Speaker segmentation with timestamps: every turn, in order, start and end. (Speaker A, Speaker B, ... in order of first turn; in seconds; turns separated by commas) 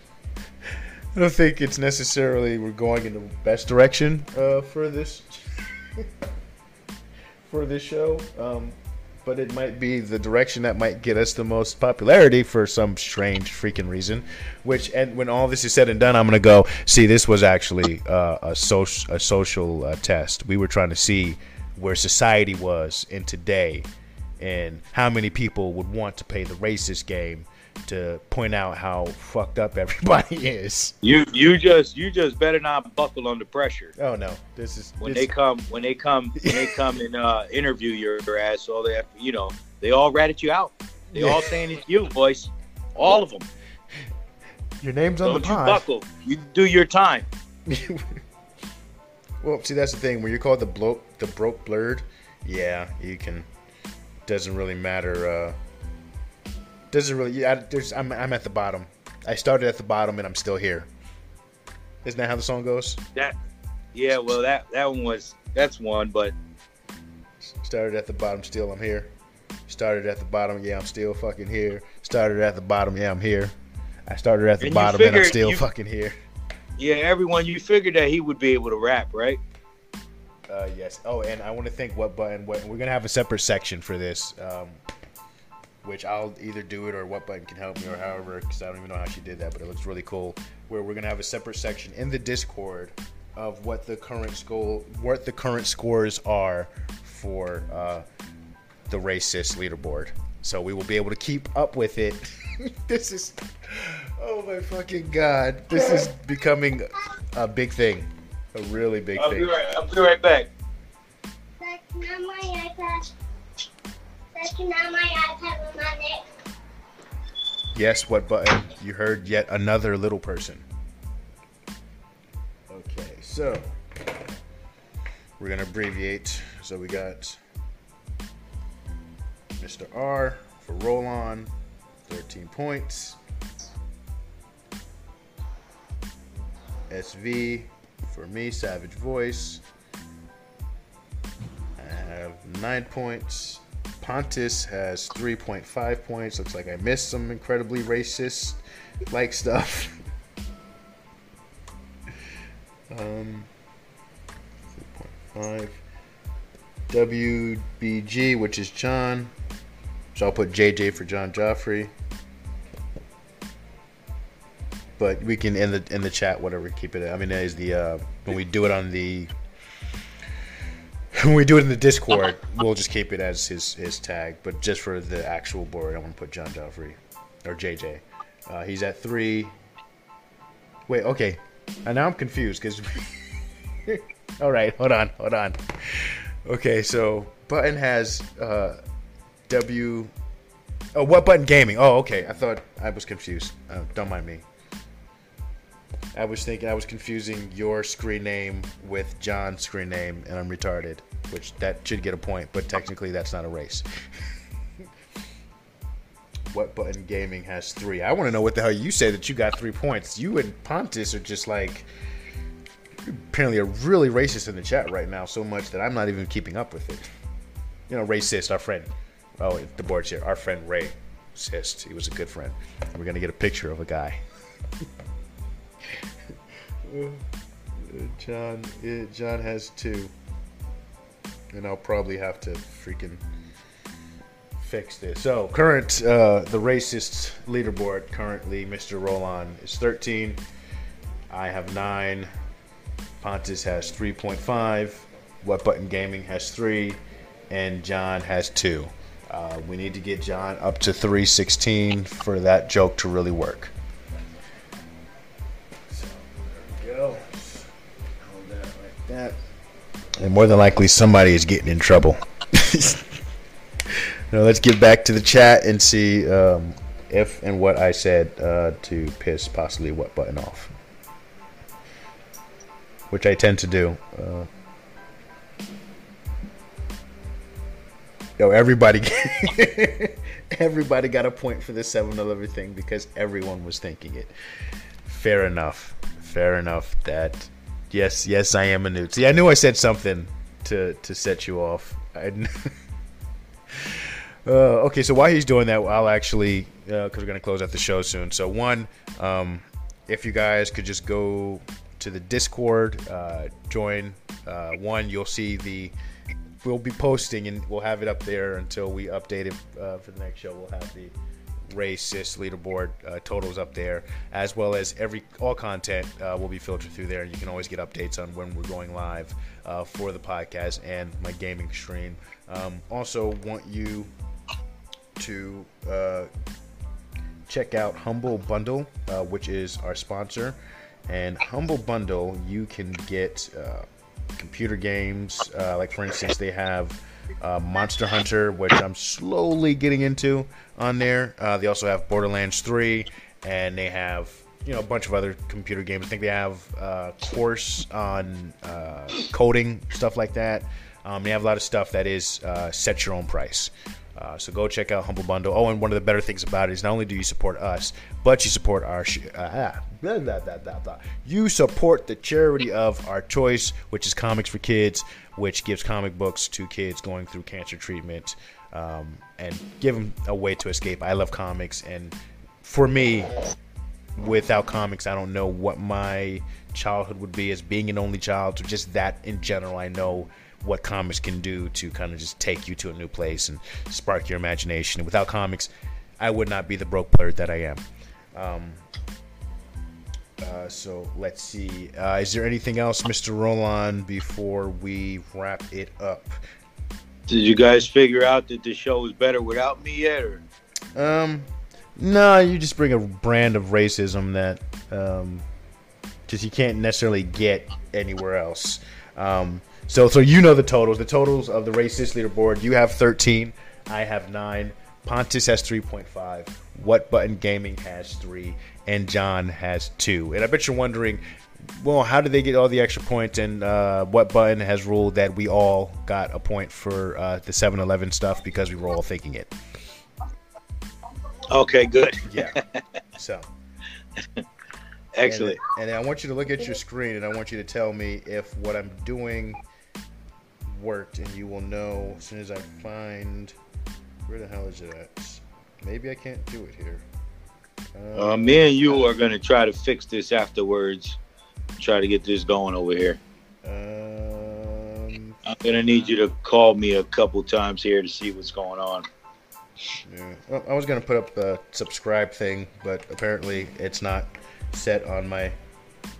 Speaker A: 1.1-6.1, Speaker A: 7.5-23.9, Speaker A: 24.4-30.9, Speaker B: 31.0-33.9, Speaker A: 34.0-35.3, Speaker B: 35.0-43.5, Speaker A: 36.4-36.9, Speaker A: 41.1-41.6, Speaker A: 44.8-45.8, Speaker B: 45.2-47.3, Speaker A: 47.7-48.2, Speaker A: 49.4-53.5, Speaker A: 54.3-55.6, Speaker A: 56.9-60.9, Speaker A: 62.0-63.0, Speaker B: 63.9-66.3, Speaker A: 67.4-69.1, Speaker A: 69.7-73.5, Speaker A: 74.1-76.2, Speaker B: 74.6-75.6, Speaker B: 76.8-79.4, Speaker A: 80.5-84.8, Speaker A: 85.8-98.1, Speaker A: 98.9-109.6, Speaker B: 109.2-110.5, Speaker C: 111.6-113.1, Speaker C: 114.3-116.2, Speaker A: 117.7-120.7, Speaker A: 122.7-123.6, Speaker A: 125.4-127.4, Speaker A: 129.6-131.5, Speaker A: 132.1-133.2, Speaker A: 136.9-139.6, Speaker A: 141.8-150.0, Speaker A: 152.9-153.5, Speaker A: 154.7-155.8, Speaker A: 156.9-159.3, Speaker A: 160.1-161.9, Speaker A: 165.0-169.3, Speaker A: 171.1-179.5, Speaker A: 180.9-188.8, Speaker A: 189.5-190.1, Speaker A: 190.9-194.4, Speaker A: 196.1-203.8, Speaker A: 206.5-211.9, Speaker A: 213.0-217.1, Speaker A: 217.9-224.2, Speaker A: 226.8-227.2, Speaker A: 227.8-230.1, Speaker A: 231.5-233.2, Speaker A: 234.6-240.4, Speaker A: 241.3-242.3, Speaker A: 243.2-253.7, Speaker A: 255.9-259.4, Speaker A: 260.2-263.2, Speaker A: 263.9-270.7, Speaker A: 273.1-274.5, Speaker A: 278.4-284.3, Speaker A: 285.1-292.7, Speaker A: 293.7-305.9, Speaker A: 306.6-311.1, Speaker A: 311.7-324.1, Speaker A: 325.2-326.3, Speaker A: 327.5-373.3, Speaker A: 374.2-388.8, Speaker A: 390.4-396.4, Speaker B: 397.3-400.4, Speaker A: 400.9-405.5, Speaker A: 406.3-421.2, Speaker A: 421.8-429.6, Speaker B: 431.5-432.8, Speaker A: 432.3-432.6, Speaker A: 433.2-433.5, Speaker B: 435.1-435.6, Speaker A: 435.2-439.6, Speaker A: 440.7-443.6, Speaker A: 444.3-447.1, Speaker A: 447.9-449.1, Speaker B: 448.1-451.2, Speaker B: 451.8-453.2, Speaker A: 453.6-456.1, Speaker B: 455.5-459.1, Speaker A: 460.0-465.6